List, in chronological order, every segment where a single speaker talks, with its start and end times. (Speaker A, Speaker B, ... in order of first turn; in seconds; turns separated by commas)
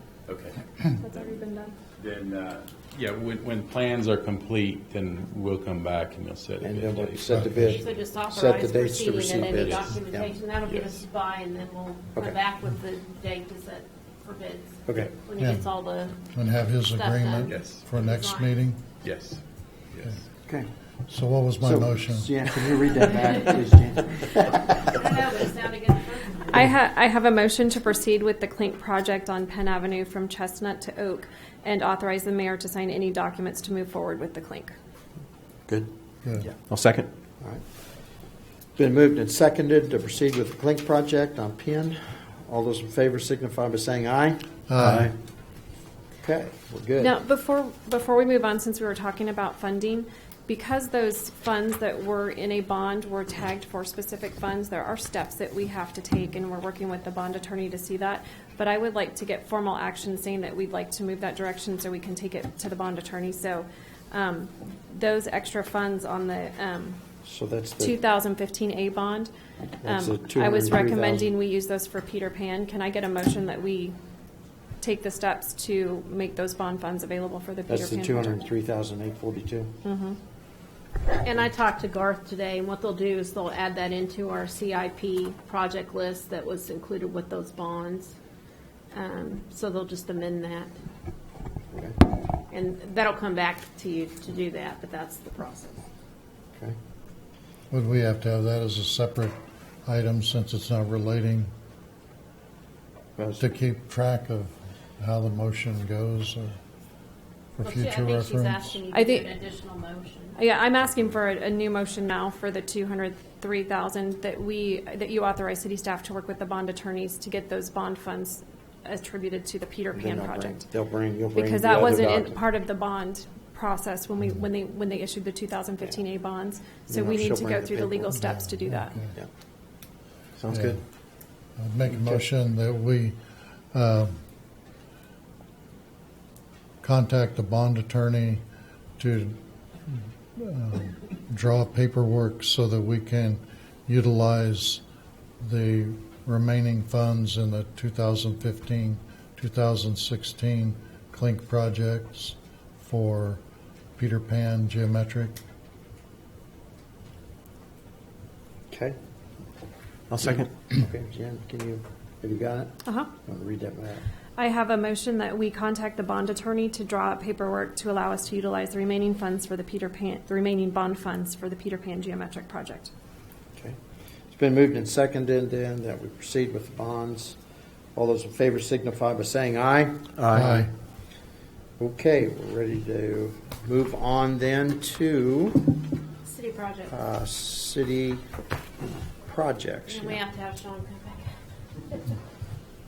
Speaker A: 0.3-1.3, Speaker B: 1.0-1.8, Speaker A: 2.0-7.9, Speaker C: 6.6-10.3, Speaker D: 7.3-7.8, Speaker E: 7.8-16.2, Speaker A: 9.4-10.0, Speaker A: 10.7-11.0, Speaker C: 14.9-15.1, Speaker D: 15.4-15.7, Speaker D: 16.3-18.8, Speaker E: 16.9-18.6, Speaker A: 17.4-17.8, Speaker A: 19.0-19.4, Speaker A: 19.9-20.2, Speaker D: 21.1-22.5, Speaker C: 21.6-24.8, Speaker E: 24.9-26.6, Speaker B: 26.5-34.8, Speaker F: 36.7-37.1, Speaker C: 38.8-45.1, Speaker D: 44.7-45.1, Speaker F: 44.8-45.1, Speaker C: 46.2-47.1, Speaker B: 47.0-67.0, Speaker C: 67.2-68.0, Speaker B: 67.8-69.3, Speaker C: 69.8-71.3, Speaker B: 69.8-74.0, Speaker B: 74.8-78.4, Speaker C: 77.7-79.7, Speaker B: 79.8-80.2, Speaker E: 81.2-88.1, Speaker E: 88.9-90.7, Speaker C: 91.7-92.0, Speaker E: 92.5-95.9, Speaker D: 97.7-101.5, Speaker C: 103.2-103.5, Speaker D: 103.4-106.6, Speaker D: 107.6-108.8, Speaker E: 107.6-110.4, Speaker B: 108.9-109.3, Speaker B: 110.4-120.7, Speaker C: 119.9-122.4, Speaker B: 121.3-129.0, Speaker C: 126.9-128.1, Speaker D: 128.2-129.1, Speaker F: 130.4-130.8, Speaker D: 130.5-130.8, Speaker D: 131.6-133.2, Speaker C: 131.9-132.2, Speaker D: 133.7-134.2, Speaker D: 136.8-138.4, Speaker D: 139.0-139.4, Speaker D: 139.9-144.8, Speaker D: 145.4-153.4, Speaker D: 154.0-155.4, Speaker C: 158.7-159.0, Speaker F: 160.1-160.5, Speaker C: 160.7-164.0, Speaker B: 162.8-163.1, Speaker B: 164.4-172.9, Speaker C: 174.3-177.4, Speaker C: 177.9-180.6, Speaker F: 180.2-180.5, Speaker D: 180.3-180.7, Speaker C: 181.8-185.7, Speaker E: 186.2-186.9, Speaker C: 186.9-188.2, Speaker C: 189.2-190.2, Speaker E: 189.9-191.3